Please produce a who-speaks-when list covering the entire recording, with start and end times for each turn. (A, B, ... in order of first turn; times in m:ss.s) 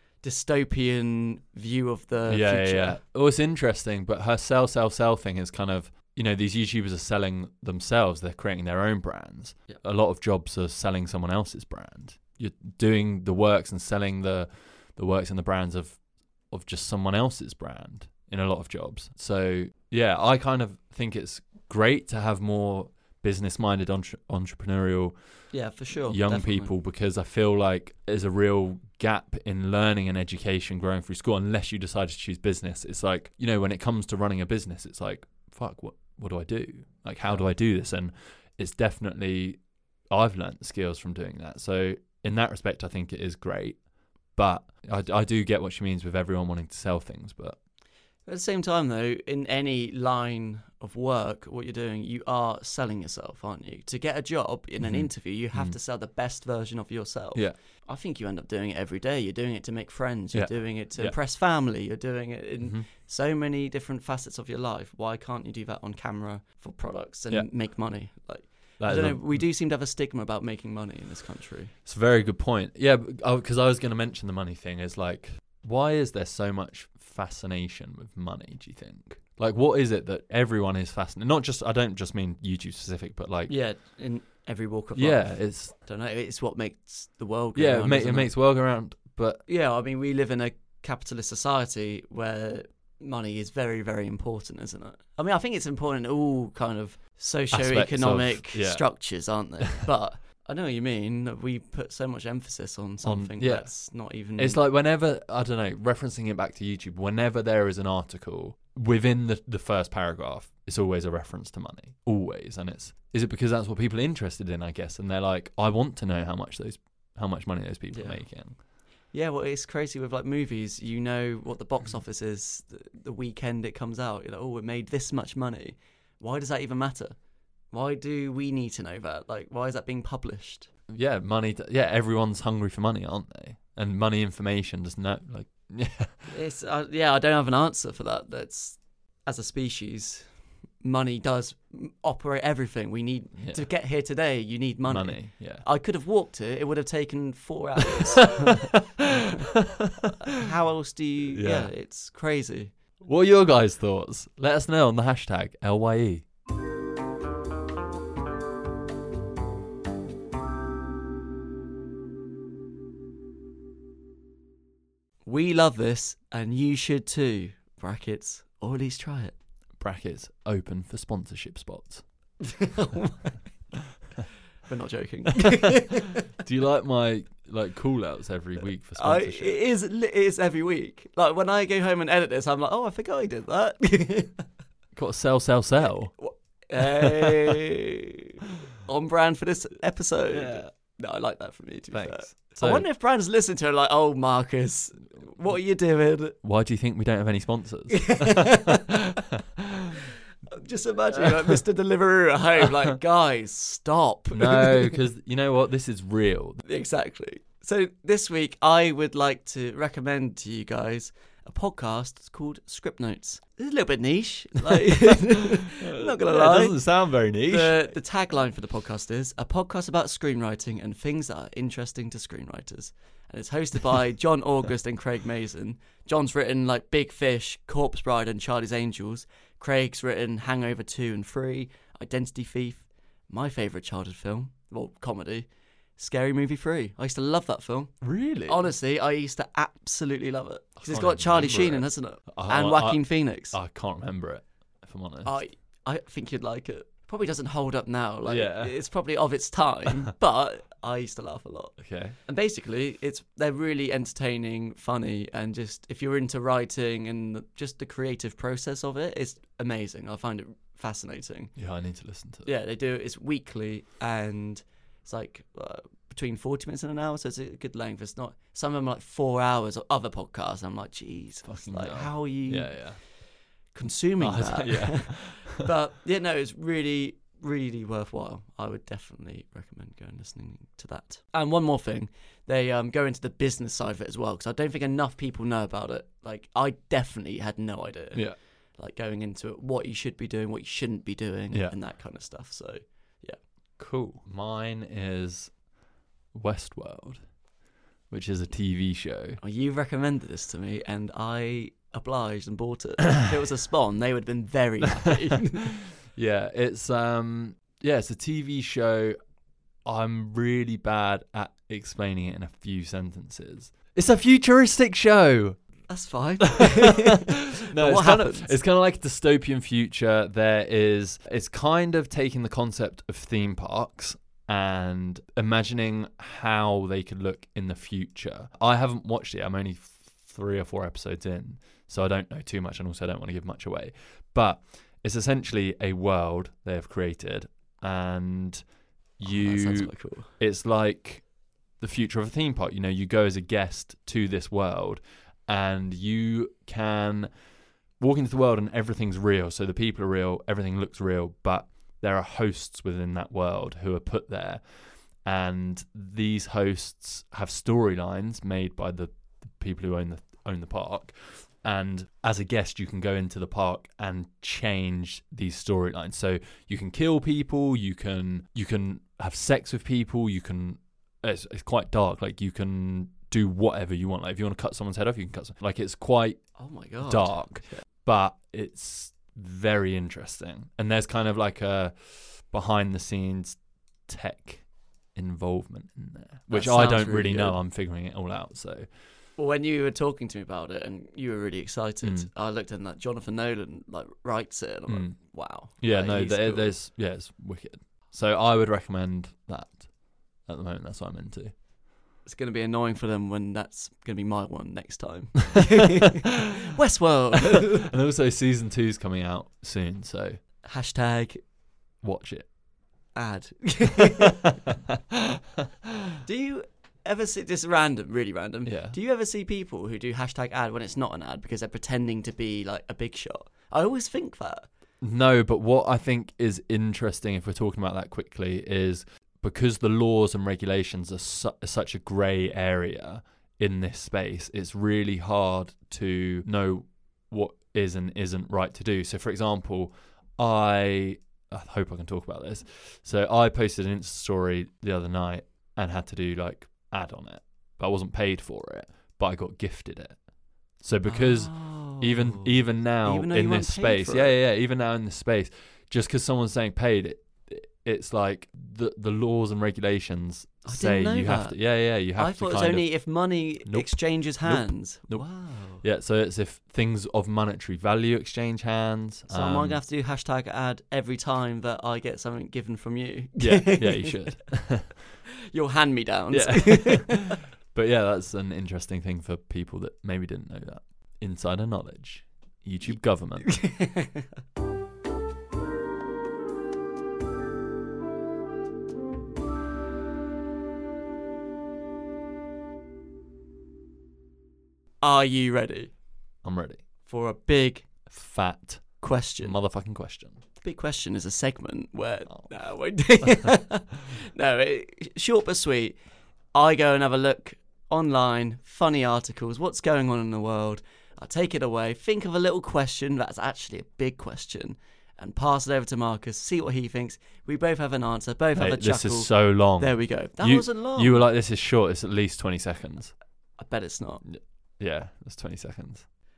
0:00.2-0:03.0 A
0:02.3-0:16.0 B
0:16.5-0:25.2 B
0:25.5-0:26.7 A
0:26.0-0:39.6 B
0:40.1-0:43.8 B
0:44.4-0:47.6 B
0:48.3-1:11.7 A
0:54.8-0:55.8 B
1:00.3-1:01.2 B
1:02.6-1:02.9 B
1:08.8-1:09.5 B
1:11.8-1:23.5 B
1:23.5-1:28.3 A
1:25.0-1:25.8 B
1:27.6-1:29.4 B
1:29.5-1:44.6 A
1:37.5-1:38.9 B
1:43.0-1:43.7 B
1:44.4-1:58.6 B
1:57.9-1:58.2 A
1:59.1-2:07.2 A
2:07.7-2:10.7 A
2:10.9-2:16.3 B
2:16.3-2:20.3 A
2:20.8-2:28.7 A
2:23.4-2:23.7 B
2:24.9-2:25.7 B
2:28.0-2:28.8 B
2:30.2-2:32.7 A
2:31.3-2:31.7 B
2:33.0-2:36.2 B
2:45.3-2:49.4 A
2:49.8-2:52.0 B
2:52.4-2:53.4 A
2:54.7-2:56.2 A
2:56.3-2:59.6 B
2:59.0-3:04.4 A
3:05.0-3:06.1 B
3:06.2-3:16.4 A
3:06.8-3:07.6 B
3:10.3-3:10.6 B
3:11.9-3:12.9 B
3:16.4-3:20.0 B
3:17.9-3:19.0 A
3:20.5-3:25.0 A
3:21.2-3:21.5 B
3:24.3-3:26.6 B
3:26.6-3:36.8 A
3:34.7-3:37.9 B
3:37.4-3:58.0 A
3:58.0-3:58.7 B
3:58.5-4:03.6 A
4:00.8-4:05.4 B
4:05.2-4:21.6 A
4:08.3-4:08.7 B
4:11.8-4:12.2 B
4:21.6-4:22.5 B
4:22.4-4:33.1 A
4:31.4-4:33.0 B
4:33.7-4:53.4 A
4:34.2-4:35.6 B
4:53.8-4:55.5 B
4:56.3-4:57.2 B
4:58.1-4:59.4 B
4:59.4-5:05.7 A
5:06.2-5:09.2 B
5:09.8-5:15.6 B
5:15.9-5:18.6 A
5:16.5-5:38.6 B
5:39.2-5:41.3 B
5:39.2-5:40.3 A
5:41.8-5:47.3 B
5:48.0-5:54.6 B
5:55.2-6:16.4 B
6:16.6-6:17.8 A
6:17.0-6:28.9 B
6:26.5-6:27.6 A
6:29.4-6:36.8 A
6:32.0-6:32.3 B
6:34.9-6:39.9 B
6:40.4-6:41.5 B
6:42.3-6:47.9 A
6:47.5-6:50.4 B
6:50.6-6:51.4 A
6:52.0-6:52.5 B
6:53.2-6:54.4 A
6:54.0-6:54.8 B
6:56.2-7:04.7 A
6:58.7-6:59.0 B
7:05.0-7:30.2 B
7:30.8-7:42.9 B
7:31.1-7:34.4 A
7:40.7-7:41.6 A
7:42.1-7:45.8 A
7:43.7-7:49.8 B
7:49.3-7:54.2 A
7:53.4-7:55.0 B
7:55.5-7:57.4 A
7:56.3-8:03.7 B
8:02.9-8:04.2 A
8:15.0-8:15.9 A
8:16.4-8:16.8 B
8:17.1-8:17.9 A
8:18.1-8:20.4 B
8:19.0-8:19.6 A
8:20.6-8:26.0 A
8:22.3-8:22.5 B
8:23.2-8:23.5 B
8:26.5-8:41.3 A
8:38.6-8:43.1 B
8:43.6-8:44.2 A
8:44.2-8:46.0 B